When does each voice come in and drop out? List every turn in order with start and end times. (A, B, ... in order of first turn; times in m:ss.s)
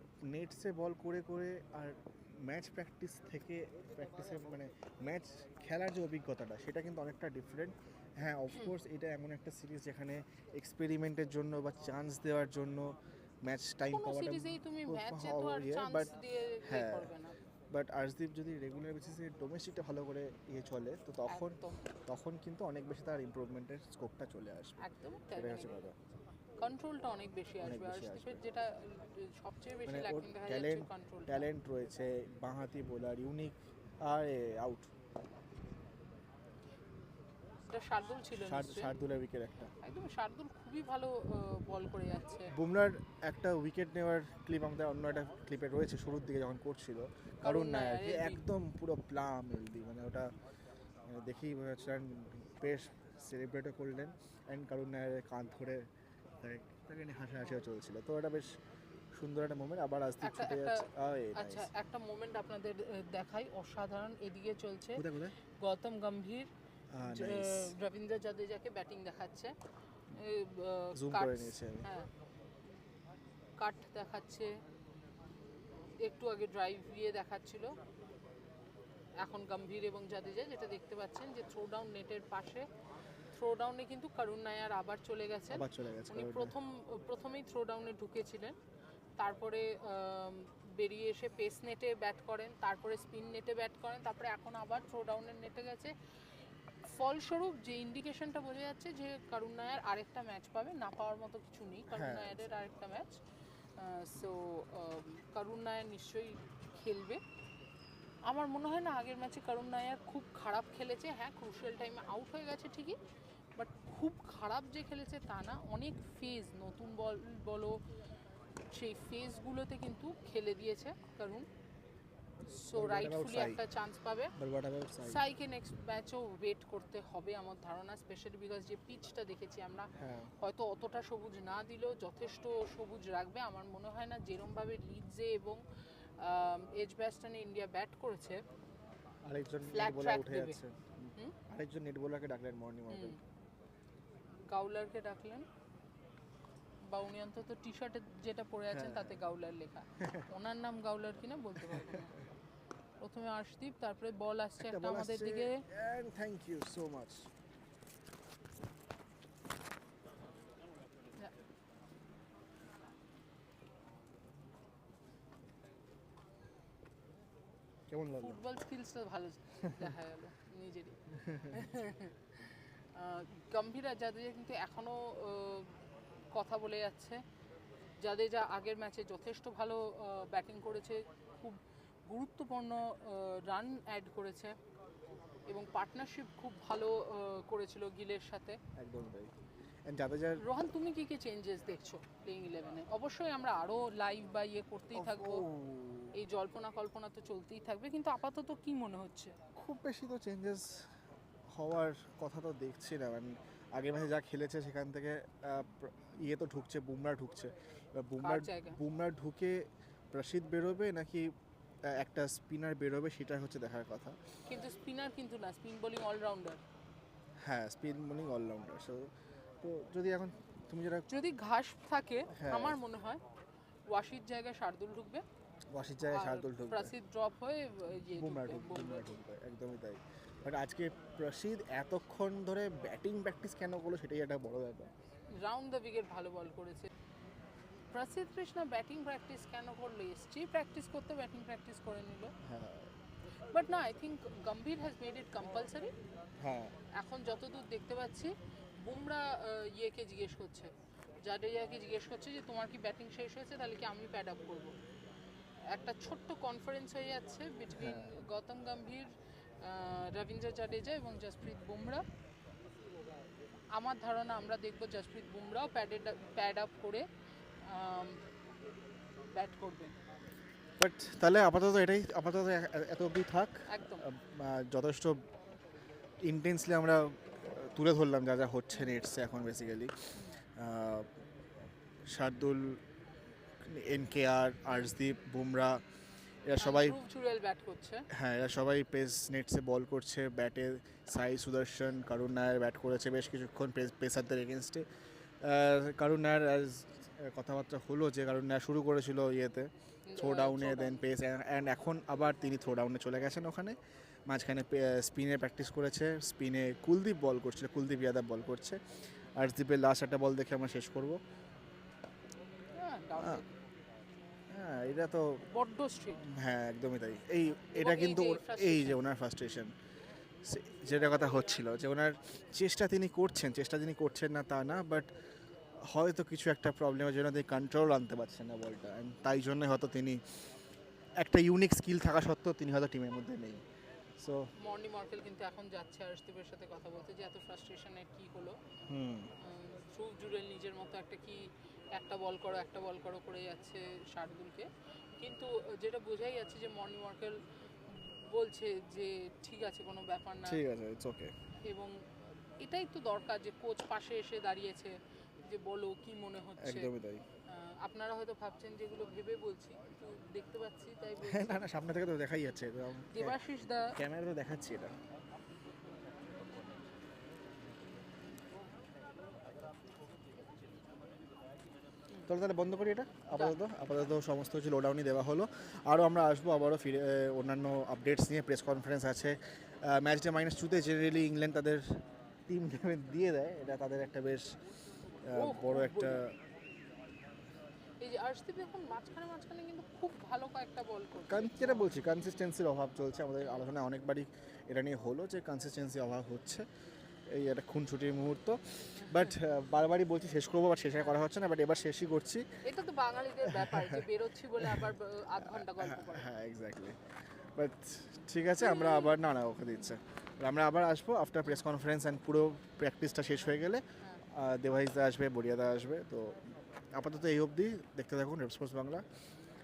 0:00.2-0:16.1 A
0:13.9-0:17.4 B
0:16.6-0:17.1 A
0:17.7-0:24.8 A
0:21.3-0:21.8 B
0:24.8-0:25.8 B
0:25.4-0:26.0 A
0:26.6-0:31.5 B
0:27.6-0:28.4 A
0:29.9-0:34.9 A
0:37.7-0:38.9 B
0:38.3-0:39.7 A
0:39.8-0:42.5 B
0:42.5-0:50.3 A
0:47.4-0:48.5 B
0:51.1-0:55.9 A
0:56.4-0:58.6 A
0:59.1-1:01.7 A
1:00.2-1:05.0 B
1:05.0-1:05.3 A
1:05.6-1:06.5 B
1:06.9-1:07.7 A
1:07.0-1:09.6 B
1:10.1-1:12.1 B
1:11.0-1:11.9 A
1:13.6-1:14.6 B
1:16.0-1:17.8 B
1:19.2-1:22.7 B
1:23.3-1:28.6 B
1:25.5-1:26.5 A
1:29.2-1:35.9 B
1:36.8-1:43.2 B
1:41.9-1:42.4 A
1:43.8-1:47.2 B
1:48.3-1:53.0 B
1:53.6-1:57.8 B
1:58.7-2:01.5 B
2:02.5-2:04.4 B
2:02.8-2:03.6 A
2:04.4-2:05.2 A
2:05.0-2:15.6 B
2:10.0-2:10.3 A
2:16.2-2:18.4 B
2:19.2-2:23.2 A
2:19.7-2:20.6 B
2:22.9-2:23.2 B
2:24.5-2:25.5 B
2:26.8-2:32.1 B
2:28.7-2:29.2 A
2:30.0-2:30.3 A
2:31.7-2:32.1 A
2:33.0-2:35.7 B
2:34.6-2:37.3 A
2:47.9-2:48.4 A
2:48.2-2:51.0 B
2:51.2-2:51.6 A
2:51.5-2:55.8 B
2:56.3-2:57.2 B
2:58.0-3:04.6 B
3:05.5-3:08.6 B
3:08.8-3:09.3 A
3:09.9-3:10.4 A
3:10.4-3:15.5 B
3:15.0-3:16.2 A
3:16.2-3:19.4 B
3:19.6-3:20.9 A
3:21.5-3:31.3 A
3:28.2-3:28.8 B
3:31.9-3:34.2 A
3:34.4-3:36.6 B
3:37.4-3:39.1 A
3:39.6-3:41.1 A
3:41.1-3:43.2 B
3:42.3-3:42.8 A
3:43.9-3:45.2 B
3:45.7-3:46.9 A
3:46.1-3:49.1 B
3:48.1-3:54.9 A
3:55.3-3:56.9 B
3:57.9-4:02.4 B
4:02.4-4:02.9 A
4:03.5-4:05.9 B
4:06.4-4:06.8 A
4:07.0-4:10.7 B
4:11.2-4:14.8 B
4:15.7-4:22.0 B
4:17.7-4:18.1 A
4:23.7-4:27.1 B
4:27.6-4:28.2 B
4:29.3-4:30.0 B
4:30.8-4:35.2 A
4:33.7-4:34.1 B
4:36.2-4:41.1 A
4:42.1-4:42.8 A
4:43.6-4:45.8 A
4:46.4-4:47.0 A
4:46.6-4:48.1 B
4:48.1-4:54.8 A
4:55.4-5:03.8 A
5:00.1-5:01.0 B
5:04.3-5:08.8 A
5:09.4-5:11.2 A
5:12.8-5:13.5 B
5:13.2-5:13.4 A
5:14.5-5:15.4 A
5:15.5-5:16.2 B
5:16.2-5:19.7 A
5:17.7-5:19.0 B
5:20.4-5:25.1 A
5:25.8-5:30.4 A
5:31.2-5:33.6 A
5:34.2-5:34.5 A
5:34.6-5:38.6 B
5:38.9-5:39.3 A
5:39.4-5:50.6 B
5:50.4-5:51.3 A
5:51.7-5:52.0 B
5:52.6-5:56.9 B
5:56.6-5:57.2 A
5:57.5-6:01.7 B
6:01.2-6:05.0 A
6:03.1-6:04.0 B
6:12.3-6:24.6 A
6:13.3-6:13.6 B
6:25.2-6:26.4 A
6:25.4-6:26.2 B
6:28.0-6:32.2 B
6:31.3-6:36.7 A
6:33.4-6:33.7 B
6:37.3-6:42.5 A
6:39.0-6:39.3 B
6:42.6-6:46.3 B
6:43.5-6:44.0 A
6:45.4-6:47.0 A
6:47.6-6:59.1 A
6:48.6-6:49.2 B